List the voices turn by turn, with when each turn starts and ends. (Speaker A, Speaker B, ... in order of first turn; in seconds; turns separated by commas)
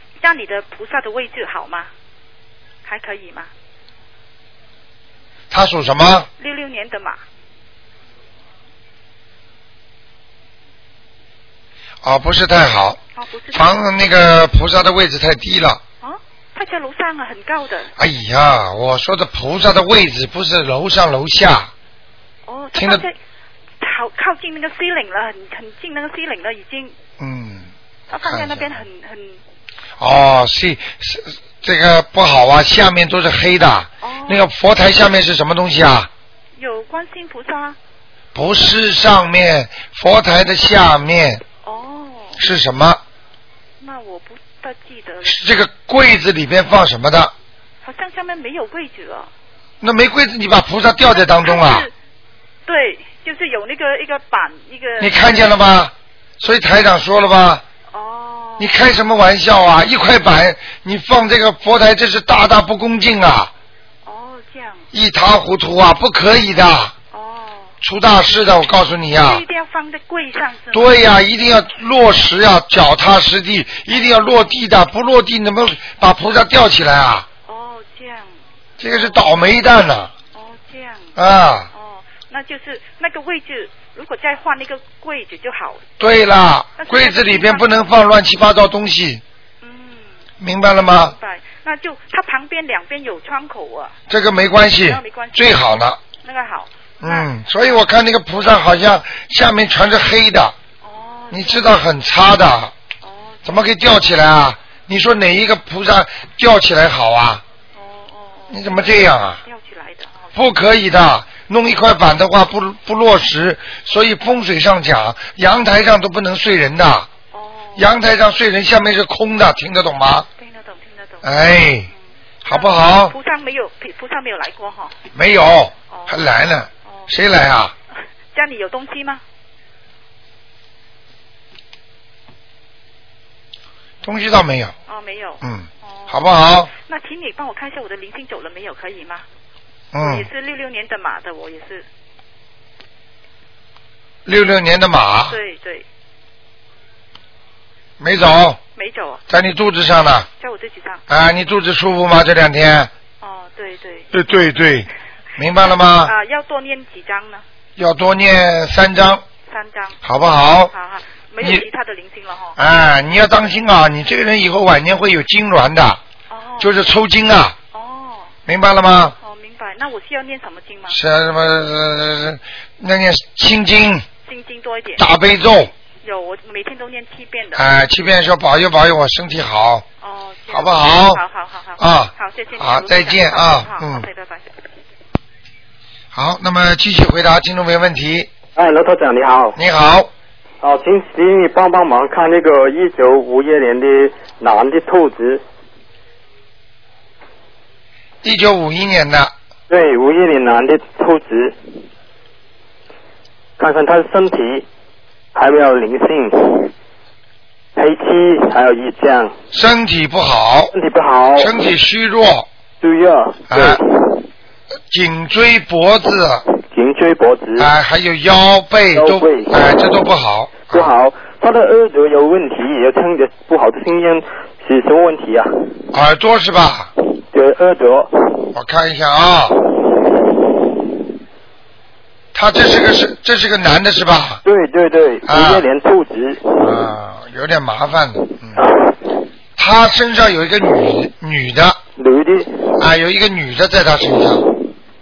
Speaker A: 0.2-1.9, Speaker A: 2.9-3.5, Speaker B: 5.5-6.3, Speaker A: 6.4-7.2, Speaker B: 12.0-13.0, Speaker A: 13.2-13.9, Speaker B: 13.5-15.8, Speaker A: 16.0-17.9, Speaker B: 18.0-21.7, Speaker A: 22.5-23.1, Speaker B: 22.8-23.0, Speaker A: 23.8-26.9, Speaker B: 27.2-27.7, Speaker A: 28.1-29.4, Speaker B: 28.2-28.8, Speaker B: 30.0-36.1, Speaker A: 34.0-34.4, Speaker A: 36.6-37.8, Speaker B: 38.3-41.4, Speaker A: 41.6-42.4, Speaker B: 42.4-43.0, Speaker A: 43.8-45.4, Speaker B: 45.2-47.3, Speaker A: 47.8-49.3, Speaker B: 49.8-51.9, Speaker A: 51.1-51.9, Speaker A: 52.7-55.5, Speaker B: 55.0-57.6, Speaker A: 57.9-58.8, Speaker B: 58.6-63.5, Speaker A: 64.0-64.8, Speaker B: 64.9-66.9, Speaker A: 67.1-67.7, Speaker B: 67.8-69.4, Speaker A: 69.2-71.1, Speaker B: 70.7-77.3, Speaker A: 73.9-74.5, Speaker A: 77.5-78.3, Speaker B: 78.8-80.1, Speaker A: 78.9-79.3, Speaker A: 80.3-81.1, Speaker B: 81.2-81.7, Speaker A: 81.7-85.8, Speaker B: 86.0-89.2, Speaker A: 86.8-87.7, Speaker A: 89.6-90.1, Speaker B: 90.4-91.2, Speaker A: 90.9-93.9, Speaker B: 94.1-96.0, Speaker A: 94.7-97.8, Speaker B: 97.0-100.5, Speaker A: 100.8-101.8, Speaker B: 101.3-102.7, Speaker A: 103.0-104.2, Speaker B: 103.5-107.4, Speaker A: 107.8-110.3, Speaker B: 108.5-109.4, Speaker B: 110.3-117.1, Speaker A: 117.3-117.9, Speaker B: 117.8-120.3, Speaker A: 120.4-121.2, Speaker B: 121.2-121.9, Speaker A: 121.9-125.0, Speaker B: 122.5-123.2, Speaker B: 125.1-127.7, Speaker A: 125.9-126.2, Speaker A: 128.3-129.2, Speaker B: 134.0-134.7, Speaker A: 134.9-139.2, Speaker B: 135.4-136.7, Speaker B: 139.9-140.3, Speaker A: 140.0-141.9, Speaker B: 144.3-145.4, Speaker A: 145.3-145.8, Speaker B: 148.0-148.6, Speaker A: 148.8-149.2, Speaker B: 149.3-150.3, Speaker A: 150.4-151.0, Speaker B: 151.1-152.9, Speaker A: 153.2-154.1, Speaker B: 154.1-156.1, Speaker A: 155.9-157.4, Speaker B: 157.8-159.2, Speaker A: 159.5-160.0, Speaker B: 160.0-160.7, Speaker A: 160.7-162.6, Speaker B: 162.6-166.0, Speaker A: 166.3-167.0, Speaker B: 166.6-167.6, Speaker A: 167.7-168.3, Speaker B: 168.5-169.2, Speaker A: 169.2-171.0, Speaker B: 170.9-174.1, Speaker A: 174.2-175.1, Speaker B: 175.0-175.7, Speaker A: 176.0-177.7, Speaker B: 177.6-179.8, Speaker A: 180.0-184.5, Speaker B: 180.5-181.2, Speaker B: 181.8-184.1, Speaker B: 186.1-188.3, Speaker C: 188.6-189.6, Speaker B: 189.6-190.1, Speaker C: 190.6-195.4, Speaker B: 198.2-199.3, Speaker C: 199.7-201.6, Speaker C: 203.6-204.7, Speaker C: 205.3-206.7, Speaker C: 207.8-209.3, Speaker B: 209.5-210.7, Speaker C: 210.7-211.6, Speaker B: 211.4-212.5, Speaker C: 212.8-214.2, Speaker B: 213.5-213.8, Speaker B: 214.9-216.4, Speaker C: 216.7-217.7, Speaker B: 217.6-220.9, Speaker C: 218.9-219.8, Speaker C: 220.7-225.7, Speaker B: 225.9-226.9, Speaker C: 227.3-228.5, Speaker B: 228.5-229.6, Speaker B: 232.3-234.4, Speaker C: 234.4-236.6, Speaker B: 235.3-235.7, Speaker B: 236.5-238.6, Speaker C: 238.6-238.9, Speaker B: 239.6-241.8, Speaker C: 242.0-242.8, Speaker B: 242.8-244.4